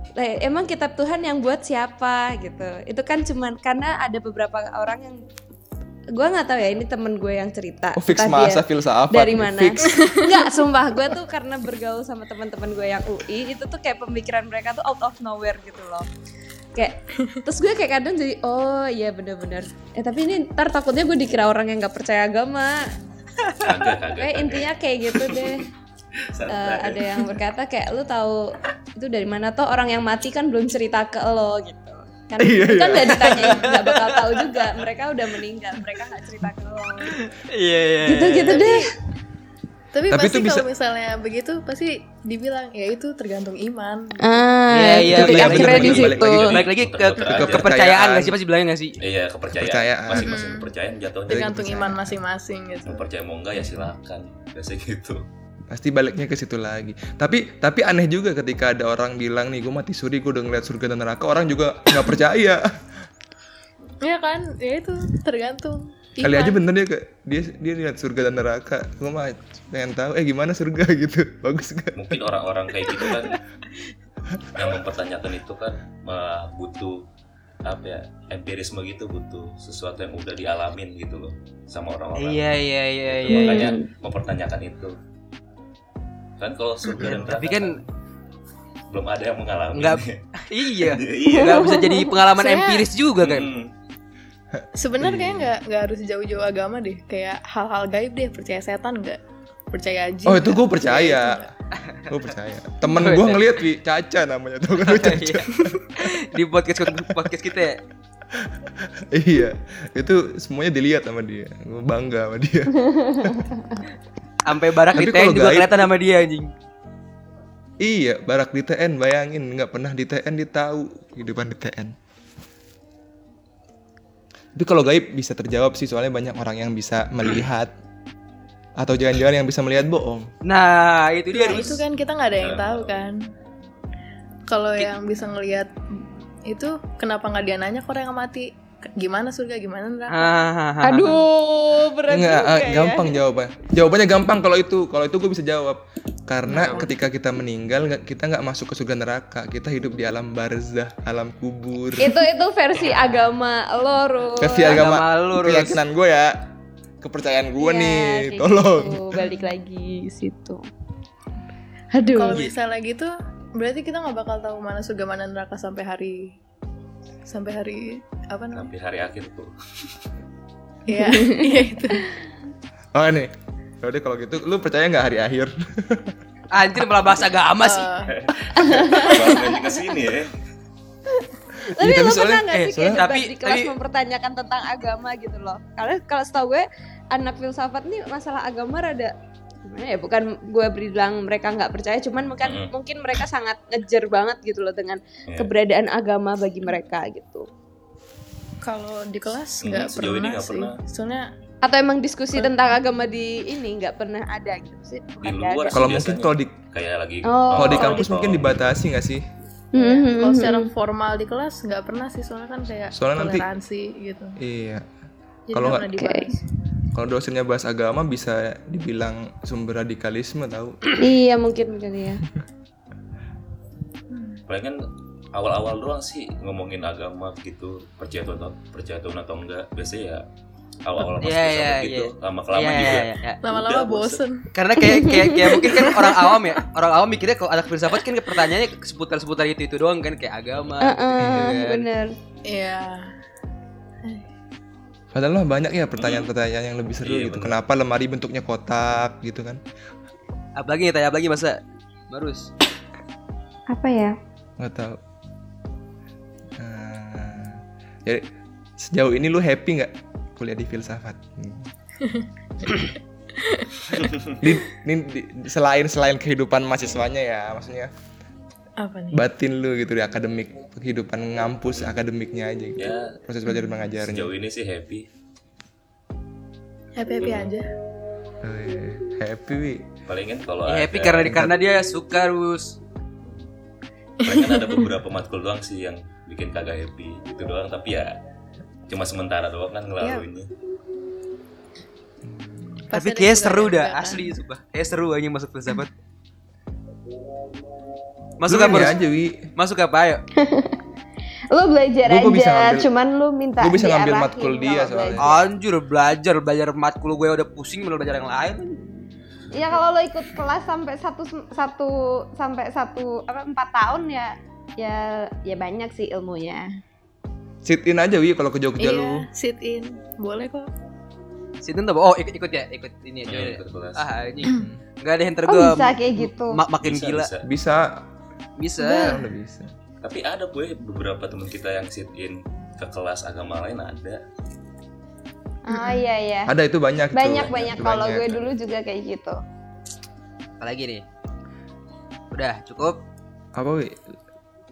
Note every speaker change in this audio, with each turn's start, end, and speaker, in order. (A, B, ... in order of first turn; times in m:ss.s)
0:00.2-0:05.2 A
0:06.1-0:16.1 A
0:08.0-0:09.8 B
0:09.8-0:10.4 C
0:16.8-0:22.9 A
0:23.6-0:25.6 D
0:24.1-0:25.6 A
0:26.3-0:27.3 D
0:26.5-0:37.2 A
0:32.4-0:33.8 B
0:33.1-0:34.4 E
0:37.1-0:38.8 E
0:38.0-0:38.9 A
0:38.5-0:38.8 C
0:39.9-0:44.2 C
0:40.1-0:40.6 B
0:44.2-0:46.5 A
0:44.7-0:49.0 E
0:45.1-0:46.6 B
0:45.5-0:47.7 D
0:47.3-0:48.4 B
0:49.0-0:51.6 D
0:49.5-0:50.4 B
0:50.2-0:50.7 C
0:51.3-0:53.0 C
0:51.4-0:52.2 B
0:52.9-0:55.2 D
0:55.7-1:02.6 B
1:04.0-1:06.6 C
1:06.2-1:12.2 B
1:11.9-1:13.4 D
1:14.6-1:17.0 D
1:17.6-1:22.6 D
1:22.2-1:23.8 E
1:23.1-1:25.0 D
1:23.3-1:23.8 A
1:26.4-1:27.8 D
1:27.0-1:27.8 E
1:28.9-1:31.8 D
1:29.7-1:33.5 E
1:31.3-1:32.1 A
1:32.4-1:32.8 C
1:33.2-1:33.7 D
1:34.6-1:35.5 B
1:34.8-1:39.2 C
1:39.7-1:41.5 C
1:40.3-1:41.4 B
1:41.8-1:42.1 E
1:42.1-1:45.7 B
1:42.9-1:43.6 E
1:44.8-1:45.5 E
1:46.0-1:47.8 E
1:48.3-1:53.5 B
1:52.9-1:53.8 A
1:54.4-1:56.5 E
1:54.9-1:55.9 B
1:57.8-2:01.9 B
2:04.6-2:07.7 B
2:08.8-2:10.3 B
2:10.4-2:11.8 E
2:11.3-2:13.2 C
2:12.3-2:13.1 D
2:14.5-2:15.8 C
2:16.5-2:20.4 C
2:20.1-2:21.2 E
2:20.8-2:23.1 A
2:22.1-2:32.2 B
2:26.5-2:26.9 E
2:26.5-2:26.8 A
2:32.0-2:34.9 A
2:32.8-2:33.4 E
2:34.4-2:36.4 B
2:34.6-2:35.8 E
2:37.0-2:39.3 B
2:37.6-2:40.6 A
2:41.9-2:42.5 A
2:42.1-2:46.4 C
2:47.3-2:48.7 C
2:48.5-2:50.1 D
2:50.9-2:52.2 C
2:50.9-2:51.5 A
2:52.9-2:53.3 B
2:53.8-2:56.2 B
2:56.5-2:57.9 E
2:57.6-2:58.1 C
2:58.1-3:00.3 D
2:58.6-2:59.8 A
3:01.6-3:09.1 A
3:01.6-3:03.1 B
3:02.5-3:03.7 E
3:09.6-3:17.5 A
3:12.4-3:12.7 D
3:18.6-3:21.2 C
3:19.6-3:20.8 D
3:21.6-3:26.0 A
3:22.4-3:22.7 C
3:25.2-3:28.7 D
3:25.7-3:26.5 B
3:27.3-3:28.1 A
3:27.6-3:29.2 B
3:29.7-3:30.7 A
3:29.8-3:34.4 C
3:33.0-3:33.4 B
3:34.4-3:34.8 B
3:35.5-3:36.4 C
3:35.5-3:35.9 B
3:35.9-3:36.2 A
3:36.9-3:40.8 B
3:41.0-3:42.2 A
3:44.1-3:44.4 C
3:44.5-3:44.8 D
3:45.3-3:50.2 D
3:50.8-3:54.2 D
3:51.2-3:53.4 E
3:53.4-3:54.4 C
3:54.6-4:01.9 E
3:54.8-3:56.5 A
4:00.5-4:01.0 D
4:00.8-4:02.2 A
4:01.2-4:01.6 B
4:02.5-4:03.1 C
4:05.1-4:09.6 B
4:06.0-4:06.3 D
4:07.0-4:07.6 D
4:10.6-4:12.5 E
4:13.7-4:14.2 A
4:14.6-4:15.0 B
4:16.6-4:21.7 B
4:22.0-4:23.8 C
4:24.4-4:27.9 B
4:28.8-4:29.2 C
4:29.1-4:34.3 B
4:32.8-4:33.1 D
4:34.0-4:35.0 D
4:37.0-4:37.7 C
4:37.2-4:37.5 D
4:38.4-4:39.9 B
4:40.1-4:41.5 D
4:40.7-4:42.8 E
4:41.2-4:41.5 B
4:43.2-4:43.5 D
4:44.2-4:48.2 D
4:44.3-4:44.8 C
4:48.9-4:50.5 D
4:52.2-4:52.8 B
4:52.9-4:54.3 C
4:52.9-4:55.9 E
4:58.4-4:59.0 E
4:58.5-4:59.4 B
4:59.6-5:00.2 E
5:00.4-5:00.8 A
5:01.5-5:05.4 A
5:02.0-5:02.9 B
5:03.6-5:05.3 B
5:05.2-5:08.9 E
5:09.5-5:16.7 A
5:17.6-5:19.2 B
5:18.8-5:20.7 C
5:21.6-5:27.3 E
5:23.3-5:24.0 D
5:24.5-5:24.8 B
5:25.5-5:26.6 A
5:26.8-5:27.5 D
5:27.4-5:28.0 B
5:28.6-5:29.2 E
5:28.8-5:29.1 A
5:29.0-5:29.7 B
5:30.0-5:34.2 D
5:35.7-5:36.5 A
5:36.5-5:38.4 B
5:37.1-5:39.4 A
5:37.4-5:37.7 D
5:40.6-5:41.0 E
5:42.3-5:43.0 E
5:43.6-5:44.0 B